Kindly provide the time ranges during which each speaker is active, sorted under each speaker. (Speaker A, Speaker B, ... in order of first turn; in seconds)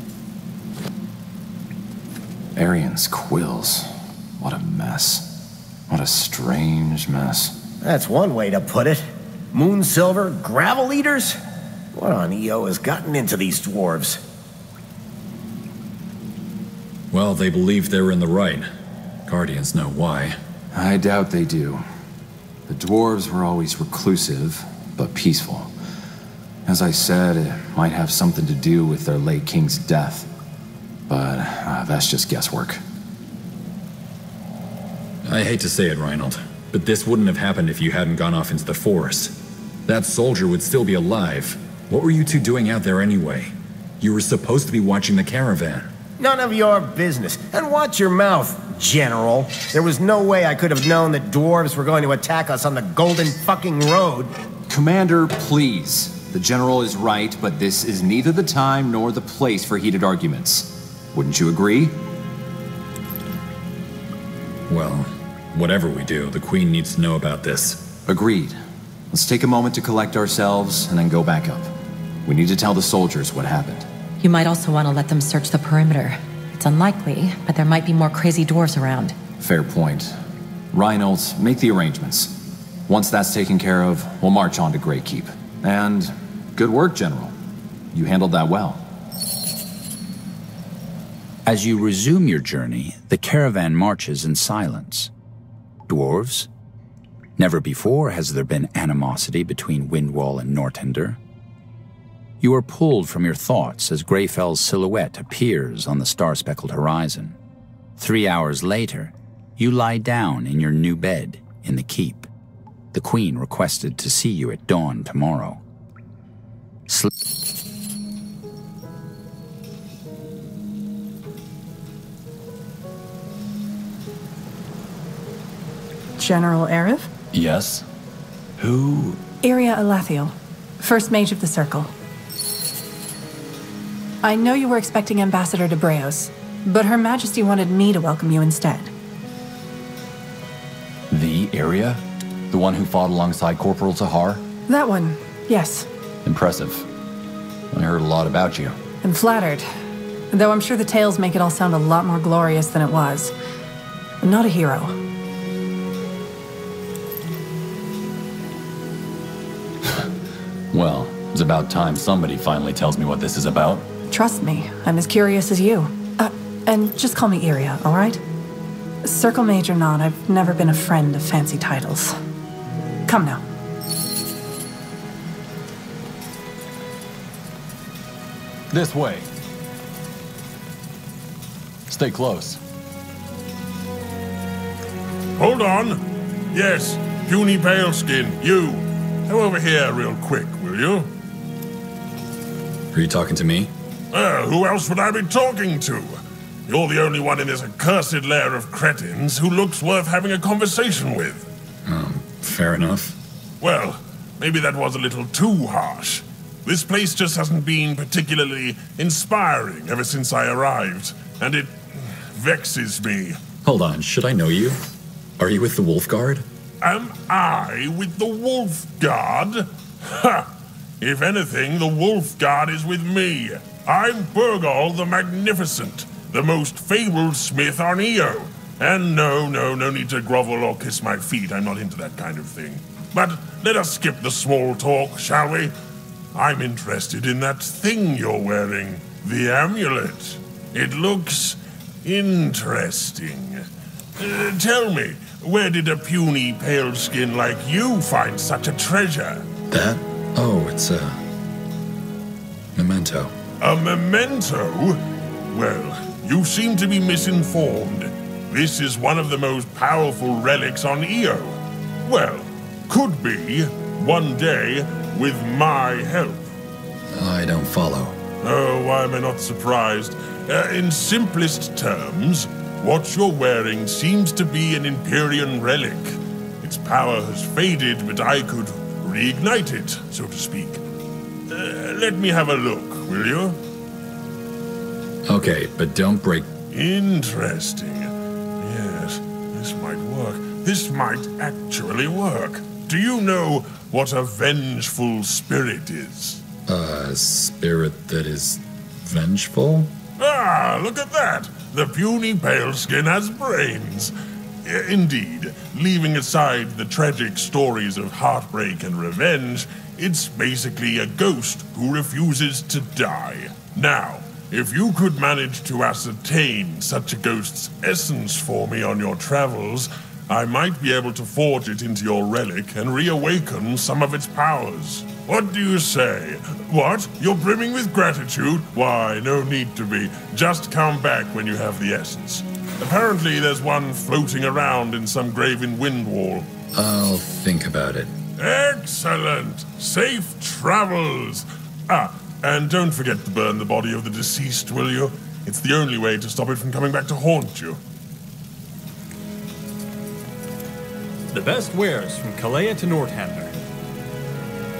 Speaker A: 2.6-5.3, 5.9-7.6, 20.7-21.8, 22.7-25.7, 26.7-30.3, 31.1-32.8, 54.7-62.0, 68.1-71.7, 72.2-73.9, 79.4-80.2, 80.7-87.3, 87.9-88.8
Speaker B: 7.8-11.4, 11.9-14.2, 46.2-54.3
Speaker C: 17.1-18.7, 19.3-20.4, 35.2-45.9, 64.7-67.9, 160.7-163.8, 192.9-193.7, 201.8-203.2, 213.6-214.8, 215.4-216.5, 249.7-251.2, 252.8-253.3, 267.1-268.2, 285.3-286.5, 296.7-299.9, 336.7-338.1
Speaker D: 74.2-79.2
Speaker E: 91.5-95.1, 95.9-96.5, 97.4-101.2, 102.4-107.4, 108.0-112.3, 112.9-115.6
Speaker F: 126.2-127.1, 129.4-131.9, 134.2-138.9, 144.7-145.9, 149.0-149.7, 150.3-153.3, 154.2-155.0, 164.1-168.2, 169.1-172.2, 173.1-173.4
Speaker G: 127.3-127.9, 128.6-129.2, 141.1-144.4, 146.2-146.9, 147.7-148.8, 178.7-179.3, 181.9-182.6
Speaker H: 185.4-186.0, 186.5-191.1, 194.1-201.4, 203.6-211.7, 212.3-213.4, 216.8-220.5, 221.0-235.7, 236.3-243.7, 244.2-249.4, 253.6-255.0, 255.5-266.5, 268.4-280.8, 281.5-283.6, 286.7-296.4, 300.2-304.1, 304.6-336.5, 338.4-347.8
Speaker I: 351.3-353.6